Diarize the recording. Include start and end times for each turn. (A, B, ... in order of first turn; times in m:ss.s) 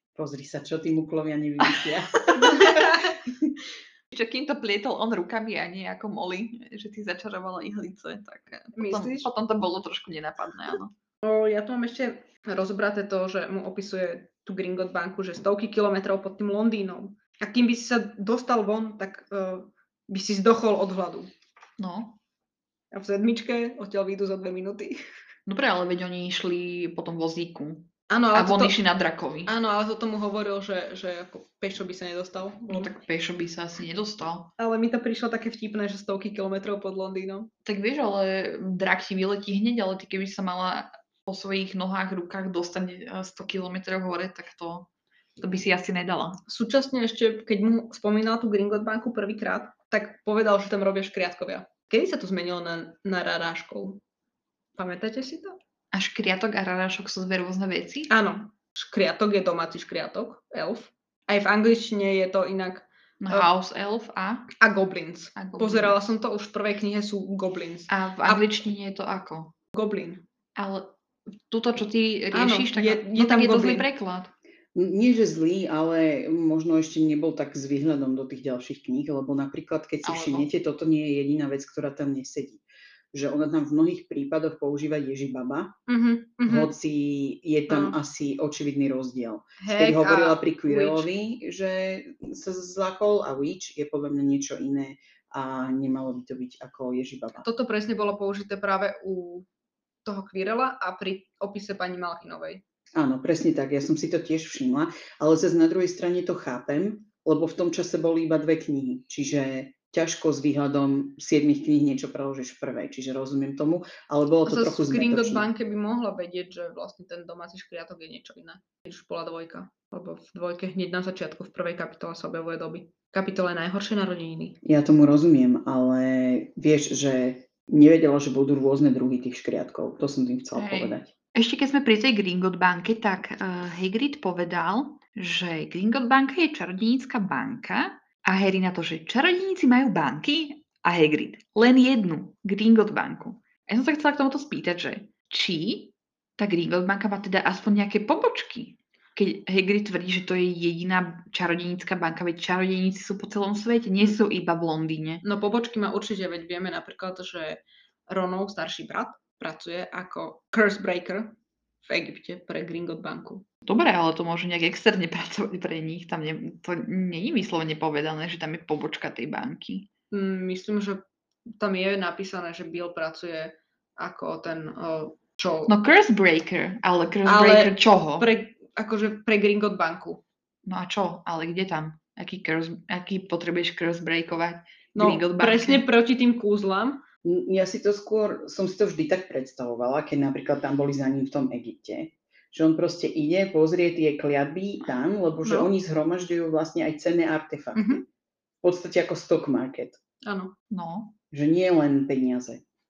0:00.1-0:03.5 A
0:01.7-0:02.3 B
0:02.4-0:03.1 C
0:04.1-0:10.9 B
0:08.8-0:09.3 C
0:11.2-0:21.3 C
0:21.8-0:22.2 B
0:22.9-0:25.0 C
0:25.5-0:29.5 B
0:28.1-0:28.8 C
0:29.5-0:33.0 C
0:32.7-0:34.5 B
0:34.6-0:37.5 C
0:37.6-0:44.9 B
0:45.4-0:46.4 B
0:46.5-0:54.0 C
0:54.8-0:55.6 C
0:55.9-0:58.1 B
0:58.1-1:03.5 C
1:03.2-1:04.5 B
1:04.6-1:08.5 C
1:05.4-1:06.0 B
1:07.9-1:09.5 B
1:09.7-1:10.2 C
1:10.6-1:14.3 B
1:12.3-1:13.8 C
1:14.7-1:25.8 A
1:20.0-1:20.5 B
1:25.9-1:26.7 C
1:26.4-1:37.5 A
1:27.7-1:28.0 C
1:29.6-1:31.1 C
1:37.4-1:39.4 C
1:40.0-1:42.6 C
1:43.0-1:55.5 A
1:54.4-2:04.6 C
2:04.6-2:11.1 A
2:10.5-2:35.2 B
2:35.2-2:43.4 C
2:43.6-2:49.9 B
2:50.1-2:51.0 C
2:51.6-2:55.7 C
2:55.7-2:58.3 B
2:57.2-3:00.2 C
3:00.6-3:05.8 B
3:04.9-3:07.0 C
3:07.2-3:18.0 A
3:15.4-3:15.7 C
3:17.7-3:18.0 C
3:18.6-3:20.0 A
3:20.2-3:20.5 C
3:20.7-3:21.1 B
3:21.3-3:22.6 A